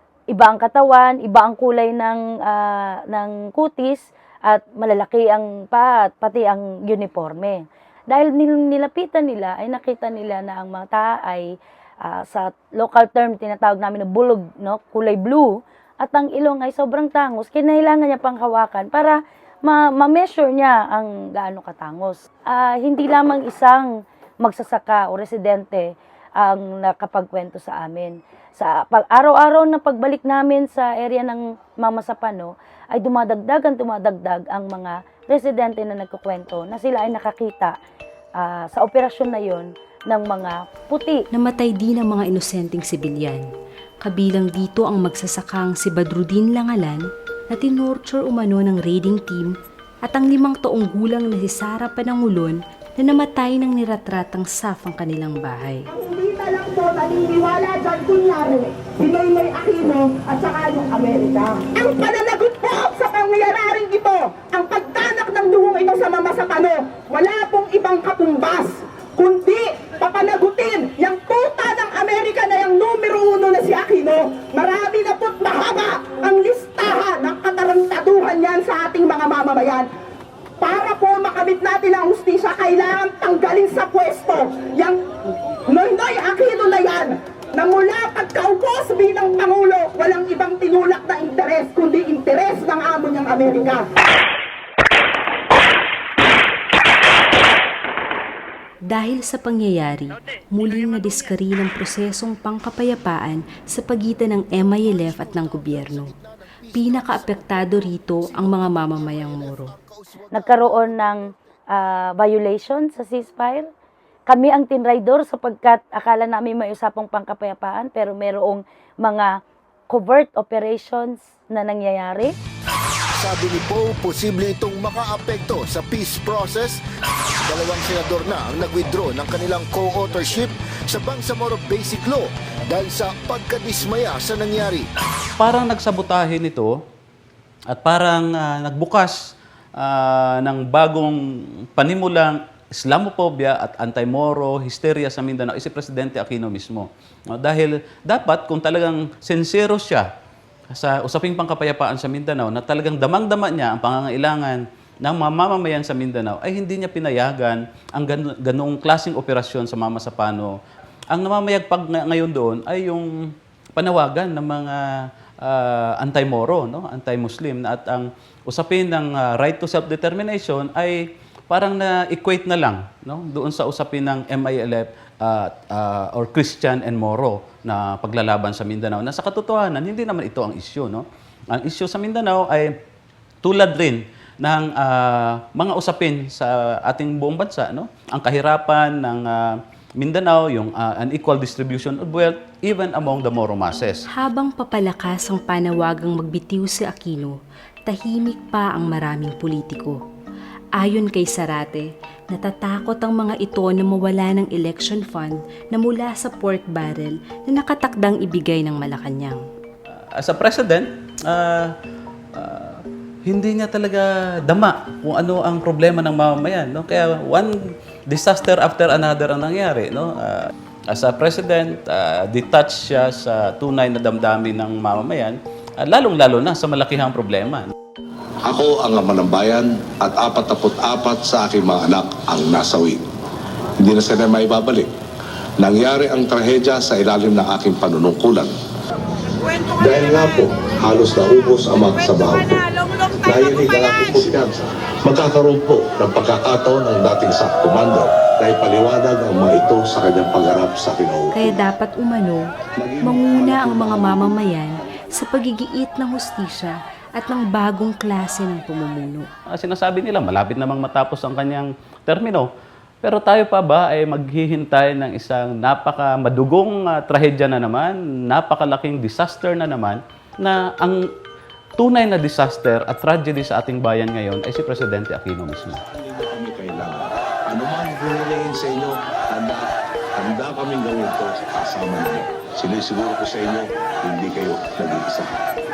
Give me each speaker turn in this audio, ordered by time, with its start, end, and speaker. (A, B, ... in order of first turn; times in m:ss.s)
0:00.3-0:11.5 A
0:12.0-0:23.9 A
0:24.4-0:37.7 A
0:38.4-0:41.2 A
0:41.3-0:43.4 B
0:44.0-0:49.5 B
0:50.0-0:55.9 B
0:55.9-1:19.9 C
1:20.6-1:25.0 C
1:25.6-1:33.9 C
1:38.9-1:46.1 B
1:44.7-1:51.3 D
1:46.7-1:49.7 B
1:50.3-1:51.2 A
1:51.7-1:53.7 A
1:54.3-1:59.3 A
1:59.9-2:02.3 A
2:03.2-2:06.8 D
2:07.4-2:14.9 D
2:15.4-2:16.8 E
2:17.7-2:21.2 E
2:21.7-2:30.1 E
2:30.7-2:40.5 E
2:41.1-2:43.1 E
2:43.8-3:02.7 E
3:03.4-3:14.0 E
3:14.1-3:20.0 B
3:20.8-3:29.4 B
3:30.0-3:31.7 E
3:32.3-3:37.6 E
3:38.1-3:47.7 E
3:48.4-3:53.0 F
3:53.8-3:54.9 F
3:55.6-3:58.5 F
3:59.8-4:02.7 F
4:03.2-4:11.6 F
4:11.3-4:12.5 B
4:12.8-4:14.4 F
4:13.0-4:19.3 B
4:19.5-4:22.5 E
4:23.0-4:31.0 E
4:31.8-4:35.8 E
4:35.9-4:39.6 F
4:40.2-4:45.3 F